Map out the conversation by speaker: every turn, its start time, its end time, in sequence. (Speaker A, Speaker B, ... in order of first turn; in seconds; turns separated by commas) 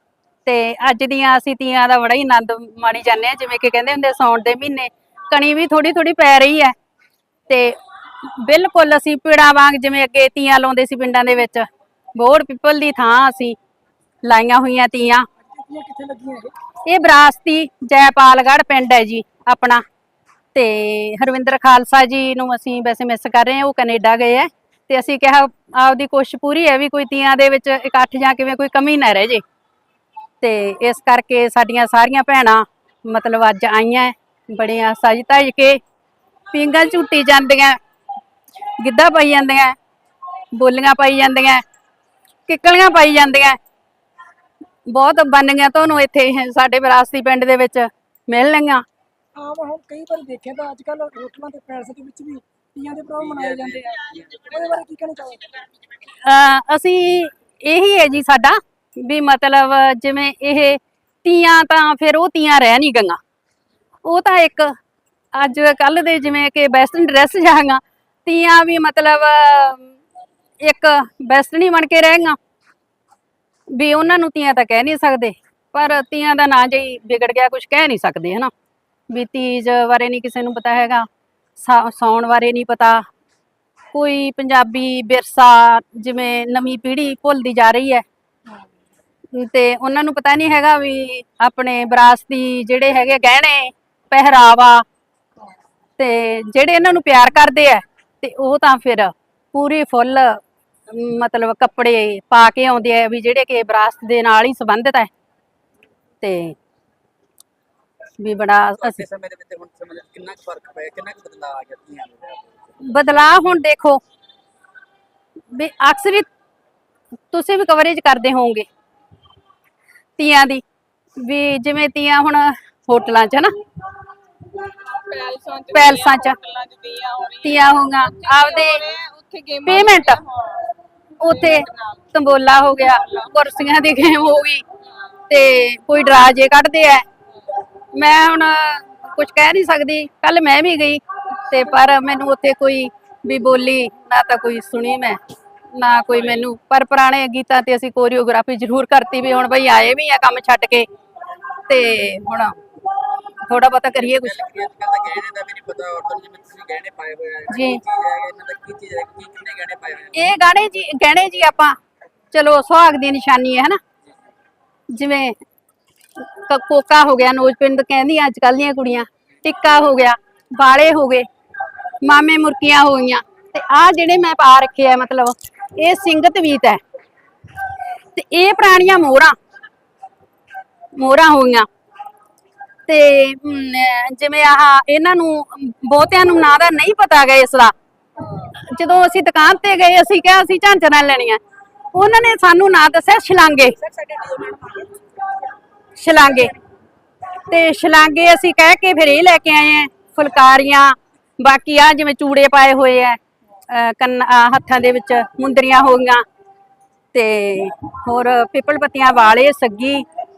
Speaker A: 0.4-6.7, Speaker A: 7.5-11.6, Speaker A: 12.1-13.6, Speaker A: 14.2-15.2, Speaker B: 15.4-16.5, Speaker A: 16.9-19.8, Speaker A: 20.5-29.4, Speaker A: 30.4-35.8, Speaker A: 36.5-37.8, Speaker A: 38.8-39.7, Speaker A: 40.5-41.6, Speaker A: 42.5-43.6, Speaker A: 44.9-48.8, Speaker B: 49.4-55.4, Speaker C: 53.2-54.8, Speaker A: 56.2-63.2, Speaker A: 64.0-64.7, Speaker A: 65.3-69.8, Speaker A: 70.6-72.4, Speaker A: 73.7-78.5, Speaker A: 79.1-83.0, Speaker A: 83.9-88.0, Speaker A: 89.3-94.8, Speaker A: 96.0-105.1, Speaker A: 106.2-106.5, Speaker A: 108.2-109.0, Speaker C: 108.7-112.8, Speaker A: 112.8-114.0, Speaker A: 115.5-116.3, Speaker A: 117.3-118.7, Speaker A: 120.2-120.6, Speaker A: 121.2-123.5, Speaker D: 124.8-132.0, Speaker A: 125.7-126.4, Speaker A: 127.4-128.8, Speaker A: 129.6-130.2, Speaker A: 131.2-134.6, Speaker D: 132.9-133.3, Speaker A: 135.3-137.0, Speaker A: 137.9-145.2, Speaker A: 145.7-150.9, Speaker A: 151.7-152.6, Speaker A: 153.4-154.3, Speaker C: 154.0-160.3, Speaker A: 157.5-157.8, Speaker A: 160.2-161.8, Speaker A: 162.3-163.8, Speaker A: 164.9-165.3, Speaker A: 166.3-171.2, Speaker A: 172.0-176.8, Speaker A: 178.1-179.3, Speaker A: 180.9-181.7, Speaker A: 182.9-187.7, Speaker A: 188.6-191.4, Speaker A: 191.9-193.8, Speaker B: 193.8-195.0, Speaker A: 196.0-196.5, Speaker A: 197.5-203.2, Speaker A: 203.7-206.2, Speaker A: 207.1-210.0